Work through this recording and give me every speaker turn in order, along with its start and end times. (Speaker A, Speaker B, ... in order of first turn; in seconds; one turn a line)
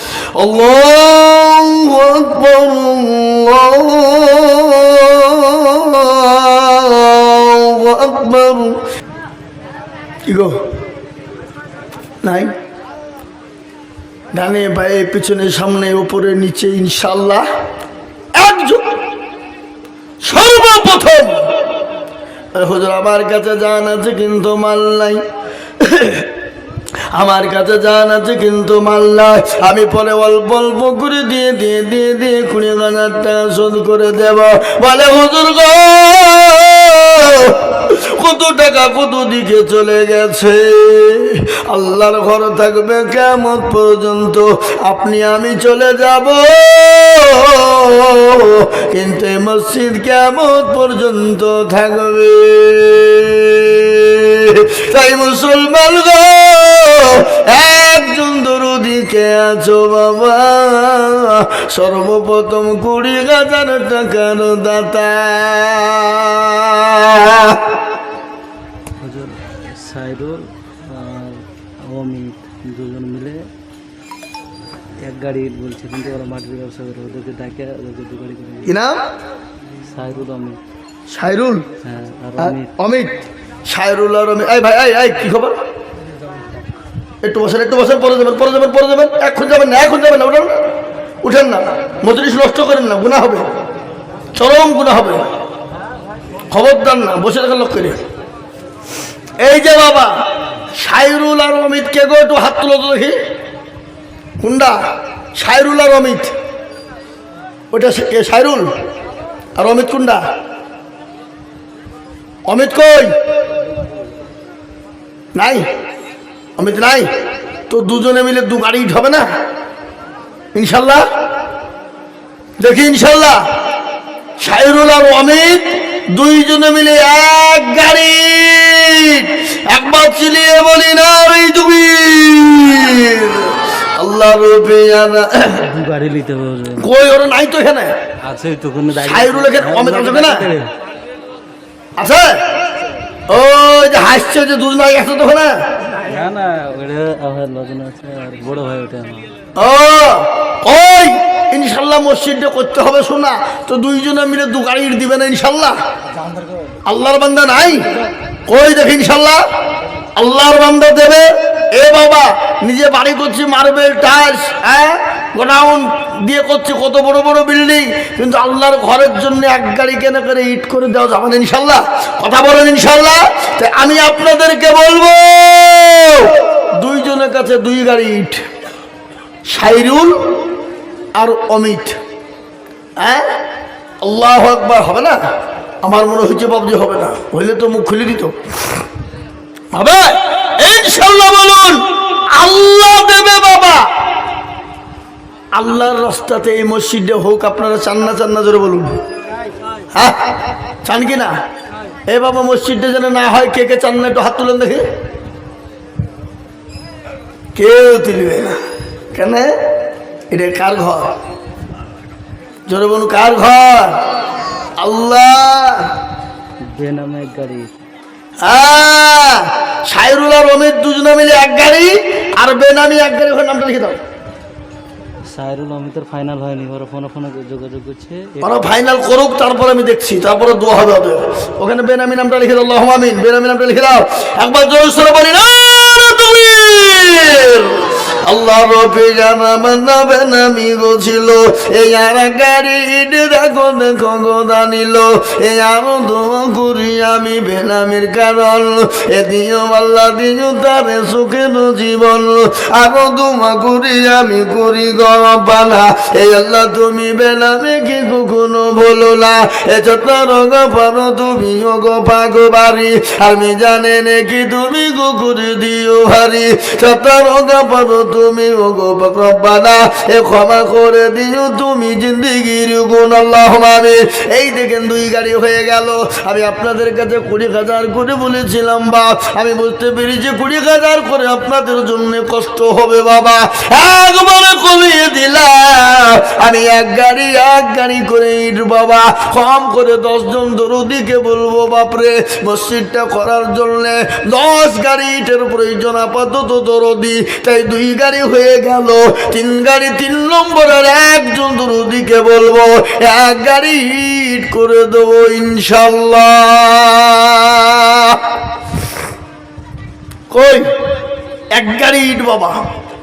Speaker A: 0.3-8.8
Speaker A: 10.3-10.6
Speaker A: 12.2-12.5
Speaker A: 14.3-17.5
Speaker A: 18.4-19.0
Speaker A: 20.2-21.6
Speaker A: 22.6-25.2
Speaker A: 25.8-26.3
Speaker A: 27.1-67.8
Speaker B: 69.0-73.4
Speaker B: 75.0-78.8
Speaker A: 78.7-79.0
Speaker B: 79.8-80.6
Speaker A: 81.1-81.7
Speaker B: 81.8-82.7
Speaker A: 82.4-83.1
Speaker A: 83.7-85.5
Speaker A: 87.2-90.6
Speaker A: 91.2-93.5
Speaker A: 94.3-95.3
Speaker A: 96.5-98.0
Speaker A: 99.4-100.1
Speaker A: 100.8-103.2
Speaker A: 104.4-104.8
Speaker A: 105.4-106.3
Speaker A: 107.7-108.7
Speaker A: 109.6-110.2
Speaker A: 112.5-113.1
Speaker A: 115.3-115.7
Speaker A: 116.6-117.1
Speaker A: 117.7-119.3
Speaker A: 120.5-121.1
Speaker A: 122.6-123.5
Speaker A: 124.4-135.7
Speaker B: 135.6-136.9
Speaker A: 136.8-137.9
Speaker B: 138.2-140.7
Speaker A: 139.0-140.5
Speaker A: 142.0-142.4
Speaker A: 143.3-145.6
Speaker B: 145.9-149.3
Speaker A: 149.6-155.8
Speaker A: 156.9-158.0
Speaker A: 158.5-159.4
Speaker A: 160.2-178.4
Speaker A: 179.5-180.2
Speaker A: 181.2-182.0
Speaker A: 183.0-183.3
Speaker A: 184.0-185.2
Speaker A: 185.8-188.4
Speaker A: 189.7-193.9
Speaker A: 195.5-199.0
Speaker A: 199.9-201.4
Speaker A: 202.1-204.8
Speaker A: 207.6-208.6
Speaker A: 209.1-209.5
Speaker A: 210.3-211.1
Speaker A: 212.7-214.0
Speaker A: 214.8-215.9
Speaker B: 216.7-217.7
Speaker A: 218.4-224.0
Speaker B: 225.3-228.7
Speaker A: 228.4-308.2
Speaker A: 310.3-310.7
Speaker A: 311.5-312.7